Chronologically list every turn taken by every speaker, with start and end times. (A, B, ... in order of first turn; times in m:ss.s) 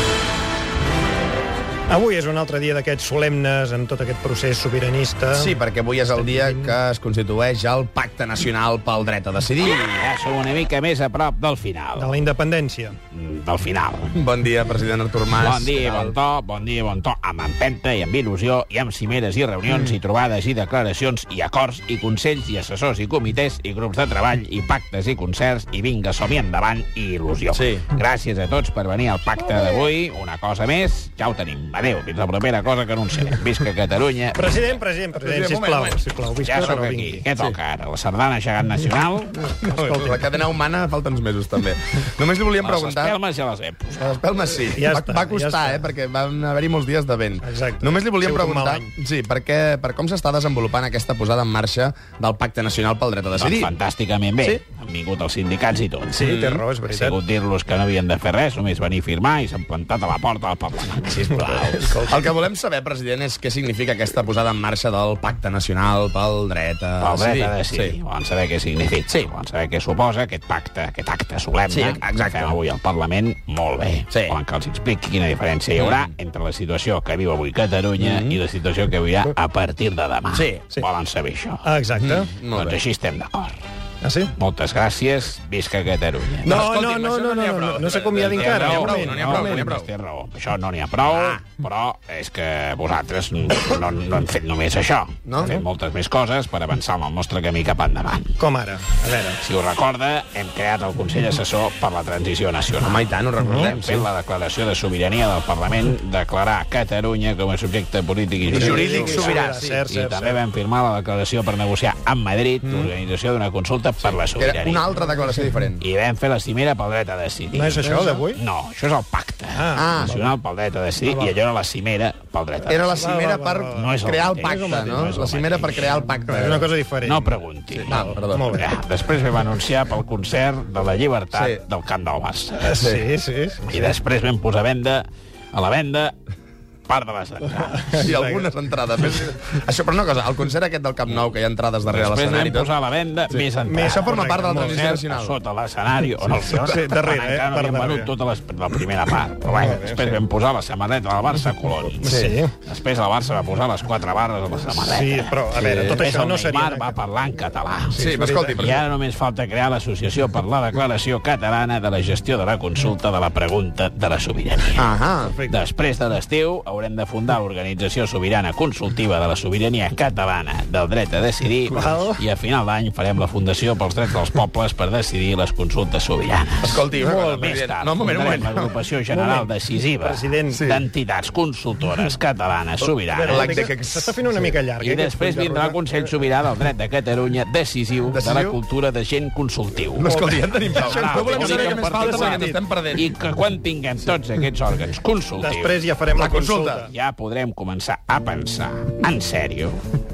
0:01.9-0:05.6 A
0:05.3-0:10.1 B
0:06.2-0:06.7 A
0:09.6-0:12.1 C
0:12.0-0:13.0 A
0:13.1-0:14.2 C
0:14.2-0:16.2 B
0:15.4-0:34.6 C
0:27.5-0:27.8 B
0:34.4-0:37.2 A
0:35.2-0:36.0 B
0:36.4-0:39.4 C
0:36.6-0:36.8 B
0:39.5-0:40.3 A
0:39.7-0:43.2 B
0:42.6-0:44.2 C
0:44.0-0:53.7 B
0:44.7-0:45.9 A
0:47.4-0:48.9 A
0:53.4-0:56.2 C
0:56.1-0:57.2 A
0:56.2-0:56.6 B
0:56.9-1:01.9 C
1:01.8-1:02.2 A
1:02.1-1:08.0 B
1:07.0-1:21.7 C
1:09.1-1:09.3 B
1:11.7-1:12.6 B
1:14.1-1:14.4 B
1:15.8-1:16.1 B
1:18.0-1:18.4 B
1:20.3-1:20.6 B
1:21.6-1:22.3 A
1:22.0-1:22.8 B
1:22.5-1:23.6 C
1:24.0-1:24.3 A
1:24.4-1:26.5 C
1:26.4-1:29.9 B
1:26.5-1:29.7 A
1:28.3-1:38.3 C
1:31.1-1:31.4 B
1:35.3-1:35.6 B
1:35.4-1:35.6 A
1:38.4-1:39.4 A
1:39.4-1:43.0 C
1:42.8-1:44.1 B
1:43.4-1:43.7 A
1:43.6-1:54.8 C
1:48.5-1:50.4 A
1:48.5-1:49.7 B
1:52.6-1:52.9 B
1:54.0-1:55.8 B
1:55.8-2:02.9 C
1:57.5-1:58.4 A
1:57.8-1:58.2 B
1:59.5-2:00.4 A
1:59.8-2:00.2 B
2:01.1-2:01.4 A
2:02.7-2:06.7 B
2:02.7-2:05.2 A
2:03.8-2:06.0 C
2:06.3-2:08.7 A
2:07.0-2:12.7 C
2:07.8-2:08.5 B
2:11.3-2:11.6 B
2:12.6-2:13.9 A
2:12.8-2:13.1 B
2:13.7-2:16.2 C
2:16.9-2:18.1 C
2:17.6-2:18.5 A
2:18.0-2:22.7 B
2:21.9-2:44.8 C
2:23.6-2:24.9 A
2:23.8-2:25.4 B
2:26.6-2:28.1 A
2:29.5-2:30.2 A
2:32.0-2:32.5 A
2:32.1-2:32.4 B
2:34.7-2:37.0 A
2:37.9-2:38.9 B
2:38.0-2:38.6 A
2:44.8-2:45.3 B
2:45.2-2:45.6 A
2:45.5-3:03.6 C
2:51.7-2:52.2 A
2:56.6-2:58.7 B
2:56.9-2:57.5 A
2:59.1-3:00.6 A
3:00.5-3:00.8 B
3:02.8-3:04.5 B
3:03.1-3:06.1 A
3:04.8-3:15.8 C
3:08.1-3:08.6 B
3:10.0-3:13.1 B
3:10.9-3:12.6 A
3:15.4-3:16.9 A
3:16.1-3:16.9 B
3:16.8-3:19.8 C